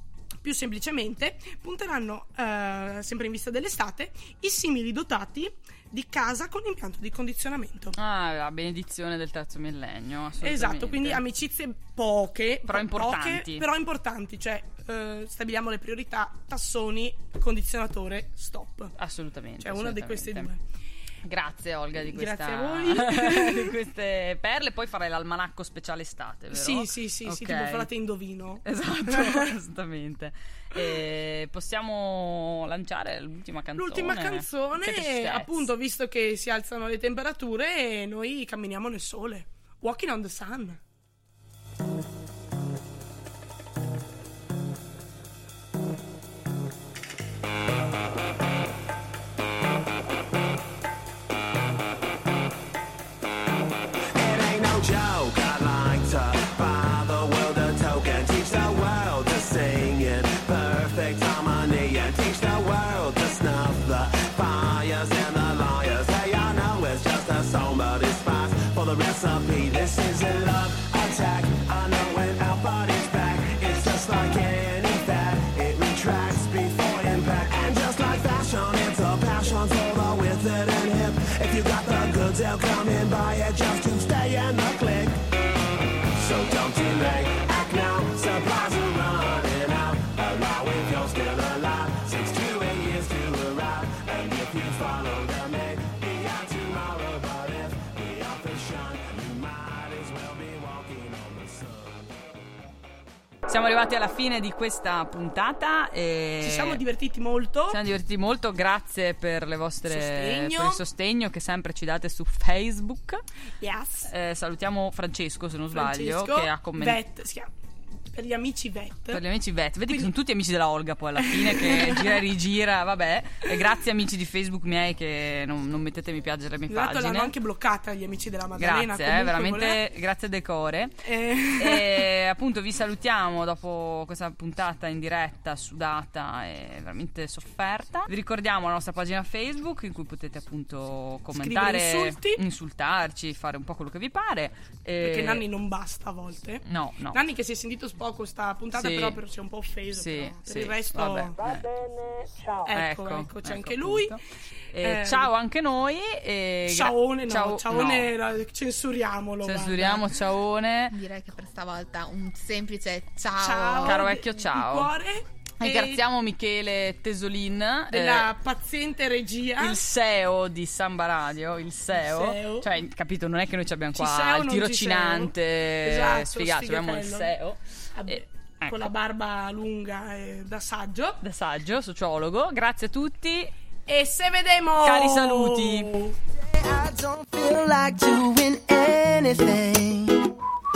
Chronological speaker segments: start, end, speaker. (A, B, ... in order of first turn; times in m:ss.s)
0:00.4-0:07.9 A
0:08.0-0:11.2 B
0:10.4-0:18.9 A
0:12.7-0:13.6 B
0:19.0-0:20.5 B
0:19.6-0:20.6 A
0:21.2-0:27.9 B
0:22.0-0:23.7 A
0:26.5-0:29.5 A
0:28.6-0:35.6 B
0:33.8-0:40.8 A
0:54.1-1:25.3 C
1:26.1-1:42.1 C
1:43.5-1:46.8 B
1:46.4-1:47.8 A
1:47.7-1:53.2 B
1:49.9-1:50.8 A
1:53.6-1:54.1 A
1:54.1-1:57.0 B
1:55.7-1:57.5 A
1:58.1-1:59.2 A
1:59.1-2:07.3 B
2:01.2-2:02.2 A
2:06.7-2:09.8 A
2:08.6-2:10.9 B
2:11.0-2:12.0 A
2:11.6-2:25.4 B
2:21.3-2:22.4 A
2:25.0-2:31.4 A
2:26.6-2:27.2 B
2:28.7-2:29.2 B
2:29.9-2:31.7 B
2:32.6-2:34.1 A
2:32.7-2:34.2 B
2:34.7-2:38.1 B
2:34.8-2:35.3 A
2:36.7-2:40.1 A
2:39.4-2:40.9 B
2:40.9-2:44.0 D
2:43.3-2:46.0 A
2:43.8-2:44.9 B
2:45.6-2:48.3 B
2:47.9-2:49.8 A
2:49.6-2:58.9 B
2:52.0-2:52.7 A
2:53.9-2:57.3 A
2:57.9-3:01.2 A
3:01.2-3:03.5 B
3:03.9-3:06.2 A
3:04.8-3:06.0 B
3:06.5-3:10.3 E